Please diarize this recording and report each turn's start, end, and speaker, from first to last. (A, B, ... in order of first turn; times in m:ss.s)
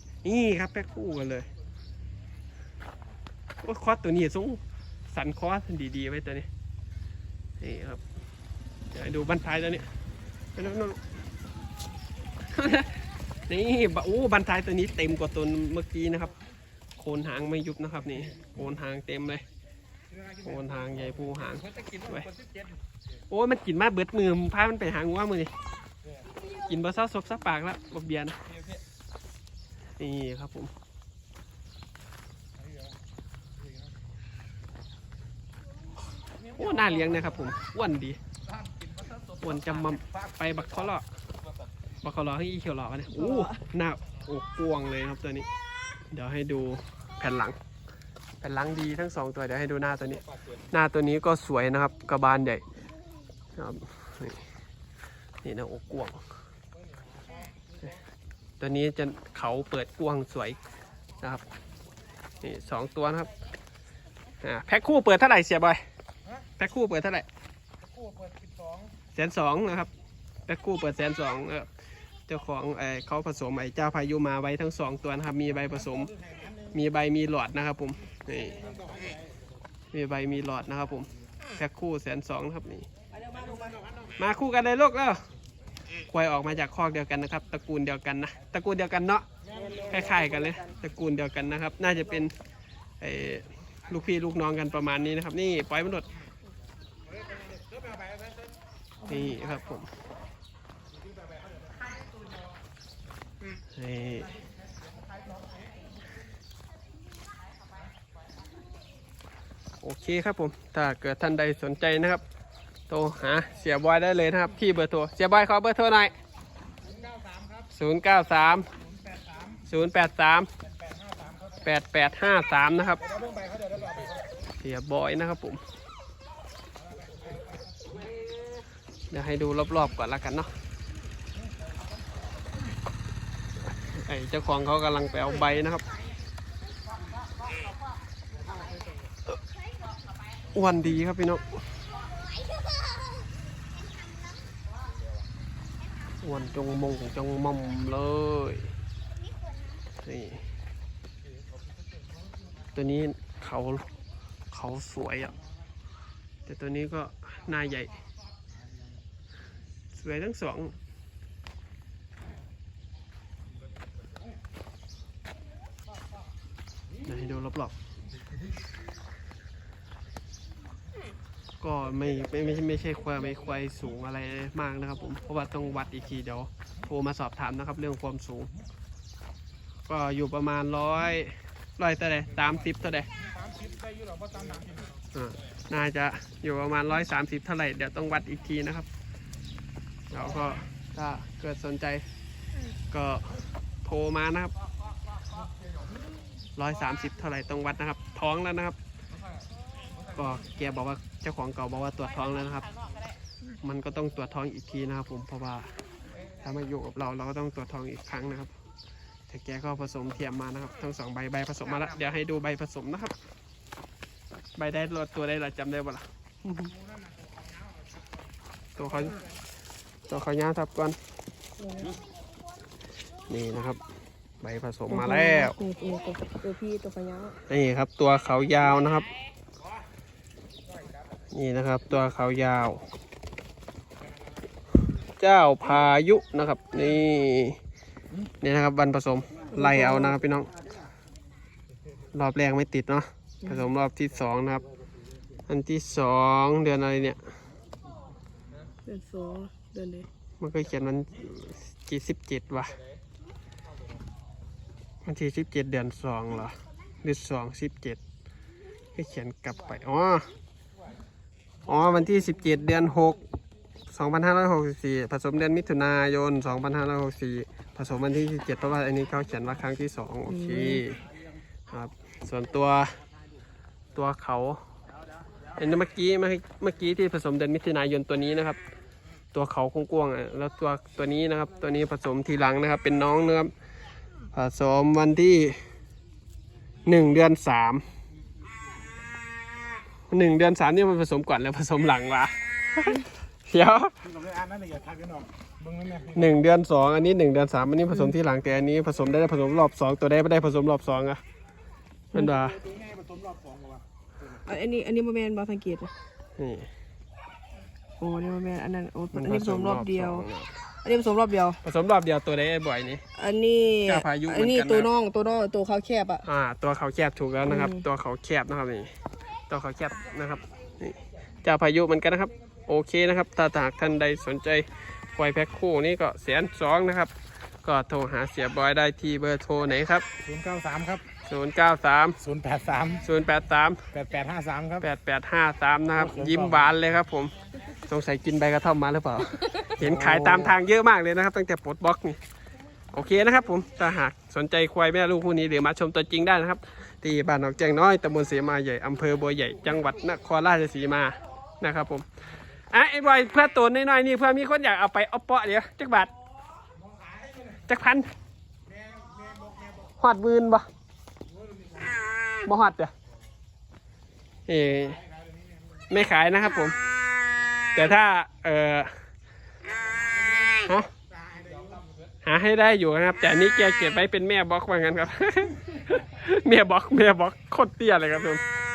0:00.2-0:01.5 A
0:03.6-0:06.5 A
0:07.6-0:08.0 A
0:08.9-0:09.9 A
0:10.5-0:11.0 A
0:12.5-0:16.3 A
0:17.0-0:19.4 A
0:20.4-0:22.3 A
0:21.8-0:22.6 B
0:23.3-0:25.5 A
0:26.5-0:28.4 A
0:30.0-0:30.7 A
0:36.5-0:38.2 A
0:39.4-0:41.1 A
0:42.0-0:45.5 A
0:43.1-0:43.7 C
0:46.1-0:47.6 A
0:48.4-0:52.6 A
0:53.6-0:54.4 A
0:55.4-0:56.2 A
0:58.6-1:00.6 A
1:02.4-1:03.3 A
1:04.4-1:05.8 A
1:06.6-1:07.2 A
1:07.9-1:08.9 B
1:09.1-1:09.9 A
1:10.5-1:11.7 A
1:12.3-1:16.1 A
1:16.3-1:16.6 B
1:16.7-1:18.7 A
1:18.6-1:19.2 B
1:19.9-1:22.9 A
1:23.1-1:23.8 C
1:24.2-1:25.2 A
1:26.1-1:29.2 A
1:29.5-1:30.8 C
1:29.9-1:32.3 A
1:33.0-1:36.1 A
1:37.2-1:38.2 B
1:39.0-1:39.4 C
1:39.1-1:39.9 A
1:43.8-1:44.3 A
1:49.8-1:52.2 A
1:52.9-1:56.1 A
1:56.9-1:57.6 B
1:57.7-1:58.7 A
1:59.0-1:59.6 B
1:59.6-2:00.5 A
2:00.8-2:01.6 B
2:01.6-2:03.0 A
2:03.0-2:04.2 B
2:04.6-2:05.6 A
2:07.3-2:07.9 B
2:09.1-2:10.5 A
2:13.7-2:15.8 A
2:20.5-2:21.6 A
2:26.2-2:28.7 A
2:30.0-2:30.4 A
2:32.7-2:33.9 A
2:34.5-2:35.4 A
2:36.4-2:37.9 A
2:39.9-2:40.8 A
2:47.0-2:47.7 A
2:51.6-2:58.5 A
2:59.9-3:03.1 A
3:03.3-3:04.9 B
3:05.1-3:08.9 A
3:10.1-3:12.0 A
3:12.9-3:14.5 A
3:16.6-3:18.8 A
3:20.1-3:22.8 A
3:23.6-3:25.7 A
3:26.4-3:28.5 A
3:29.3-3:33.1 A
3:34.6-3:36.7 A
3:38.8-3:39.2 A
3:40.1-3:41.0 A
3:41.6-3:42.0 C
3:43.3-3:43.8 A
3:44.4-3:45.6 A
3:44.9-3:47.4 C
3:47.5-3:49.1 A
3:51.3-3:52.8 A
3:55.2-3:57.6 A
3:58.4-4:00.5 A
3:59.5-4:00.2 C
4:02.1-4:04.6 A
4:05.5-4:07.2 A
4:08.8-4:10.1 C
4:10.4-4:12.8 A
4:15.0-4:18.0 A
4:18.9-4:20.3 A
4:21.6-4:23.2 A
4:23.9-4:31.1 A
4:30.3-4:30.8 C
4:31.7-4:33.0 A
4:33.9-4:34.6 A
4:35.6-4:38.6 A
4:39.3-4:43.5 A
4:44.3-4:45.6 A
4:46.8-4:47.8 A
4:50.1-4:53.9 A
4:54.2-4:56.1 B
4:56.0-5:01.2 A
5:02.1-5:02.6 A
5:02.6-5:03.8 B
5:04.4-5:05.9 C
5:06.4-5:06.7 A
5:08.0-5:10.3 C
5:09.1-5:10.5 A
5:10.8-5:11.6 C
5:11.6-5:13.0 A
5:13.1-5:16.2 C
5:13.8-5:14.9 A
5:16.2-5:18.9 A
5:17.5-5:17.8 C
5:19.5-5:27.1 A
5:27.6-5:30.0 A
5:30.3-5:31.0 B
5:31.2-5:32.2 A
5:32.2-5:33.0 B
5:33.0-5:33.8 A
5:33.9-5:34.8 B
5:34.8-5:37.3 A
5:37.8-5:42.2 A
5:42.9-5:52.0 A
5:52.7-5:56.1 A
5:57.6-5:58.1 A
5:58.7-5:59.7 B
6:00.0-6:00.6 A
6:02.4-6:02.9 A
6:04.5-6:05.0 A
6:05.9-6:06.8 A
6:07.7-6:08.9 A
6:10.5-6:10.9 A
6:11.3-6:11.7 B
6:12.2-6:18.4 A